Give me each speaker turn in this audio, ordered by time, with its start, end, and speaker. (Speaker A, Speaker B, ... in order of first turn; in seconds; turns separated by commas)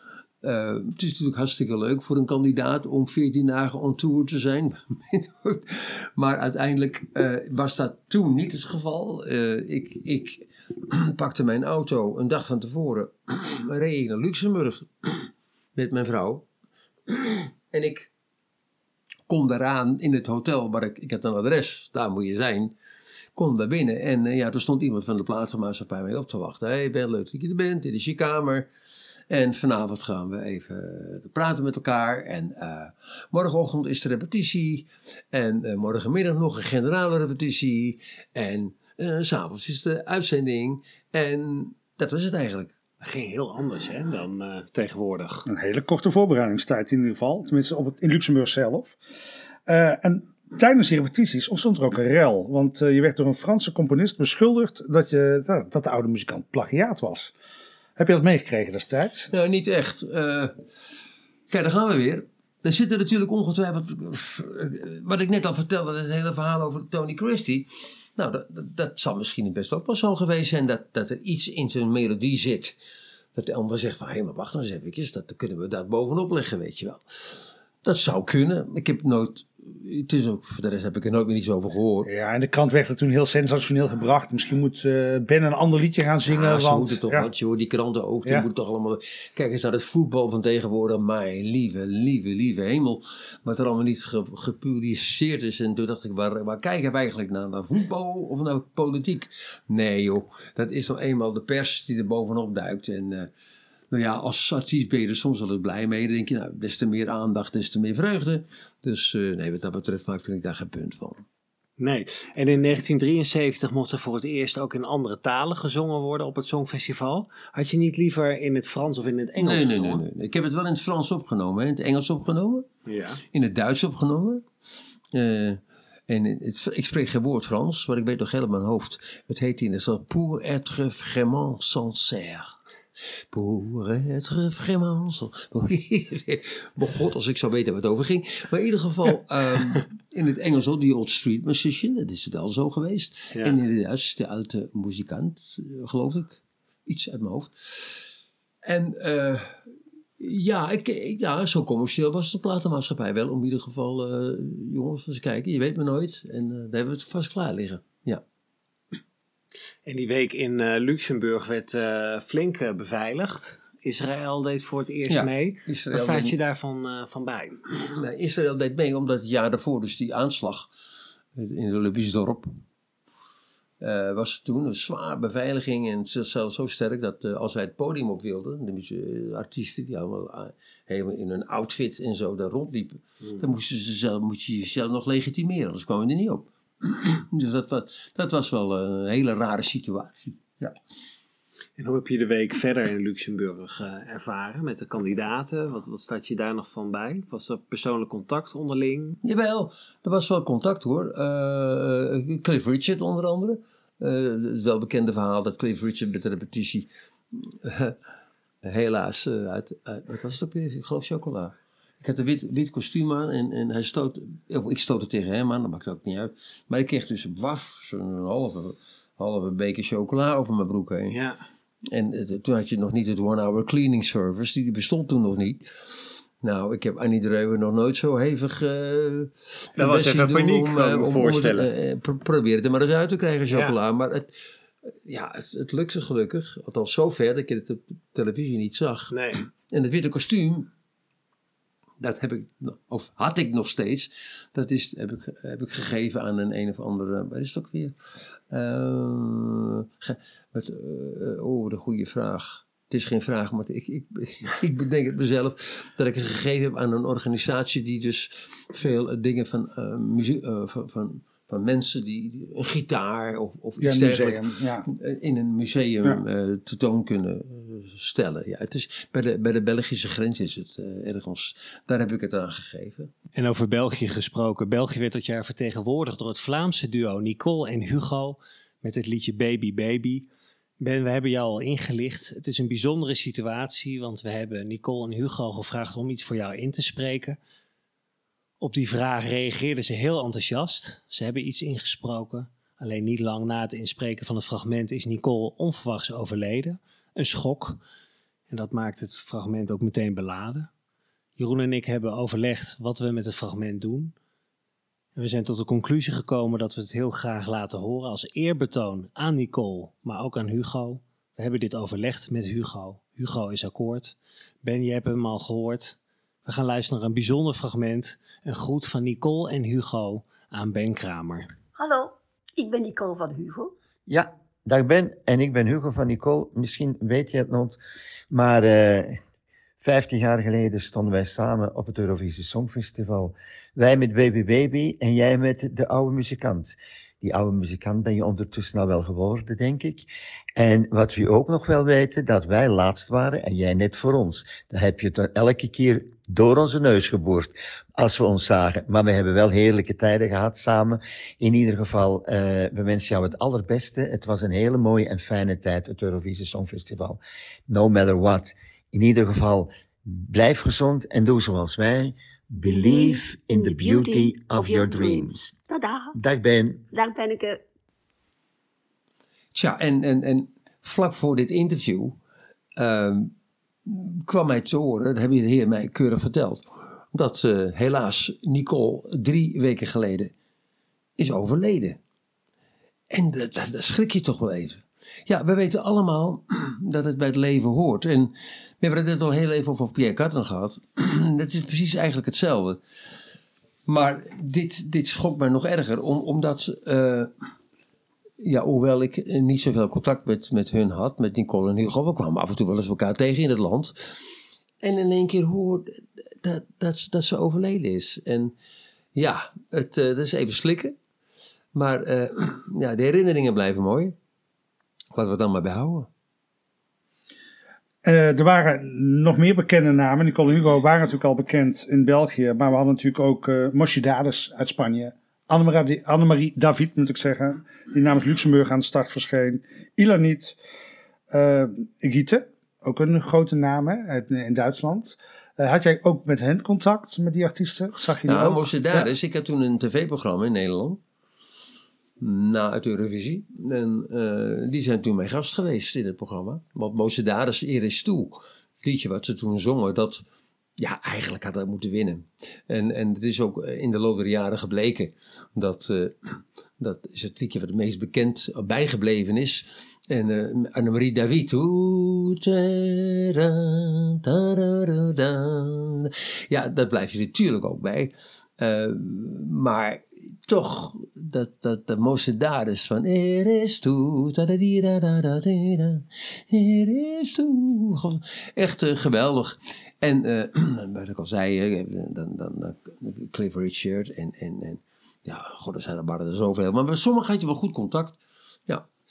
Speaker A: 0.4-16.4, Speaker A: 17.1-18.1, Speaker A: 19.3-22.7, Speaker A: 23.3-28.7, Speaker A: 29.3-42.7, Speaker B: 43.0-45.5, Speaker C: 45.5-49.0, Speaker C: 49.7-57.3, Speaker C: 58.0-59.3, Speaker A: 59.3-60.5, Speaker A: 61.5-72.8, Speaker A: 73.3-82.1, Speaker C: 82.0-87.3, Speaker A: 86.2-103.3, Speaker A: 103.9-111.2, Speaker B: 111.8-120.0, Speaker A: 119.4-122.7, Speaker B: 122.9-123.2, Speaker A: 123.3-124.5, Speaker A: 125.1-132.6, Speaker A: 133.3-148.1, Speaker A: 148.6-149.6, Speaker A: 150.2-158.2, Speaker B: 159.8-167.6, Speaker A: 165.1-166.4, Speaker A: 167.8-170.7, Speaker A: 171.3-172.5, Speaker A: 173.8-190.8, Speaker B: 191.8-199.2, Speaker A: 199.2-208.0, Speaker A: 208.6-221.2, Speaker B: 221.1-221.4, Speaker A: 221.9-234.3, Speaker B: 229.8-231.7, Speaker B: 233.5-233.7, Speaker A: 234.8-240.7, Speaker B: 239.1-239.4, Speaker A: 242.0-247.9, Speaker A: 248.5-273.1, Speaker C: 263.8-264.9, Speaker B: 273.3-280.3, Speaker B: 280.8-287.4, Speaker B: 288.6-297.8, Speaker B: 298.5-300.7, Speaker B: 301.4-304.1, Speaker B: 305.1-321.5, Speaker D: 321.8-323.7, Speaker E: 324.1-327.8, Speaker E: 328.3-329.2, Speaker E: 329.8-340.1, Speaker E: 340.6-365.6, Speaker D: 362.7-366.1, Speaker E: 366.1-366.9, Speaker D: 366.9-367.6, Speaker A: 369.5-372.2, Speaker A: 372.8-373.3, Speaker A: 373.9-380.3, Speaker A: 381.2-382.0, Speaker A: 383.1-392.8, Speaker A: 393.9-397.3, Speaker A: 398.4-403.9, Speaker A: 404.8-408.5, Speaker A: 409.1-410.9, Speaker A: 411.7-414.1, Speaker A: 415.1-416.1, Speaker C: 418.0-430.6, Speaker C: 431.3-439.1, Speaker A: 438.2-441.0, Speaker A: 442.2-450.2, Speaker A: 450.8-488.8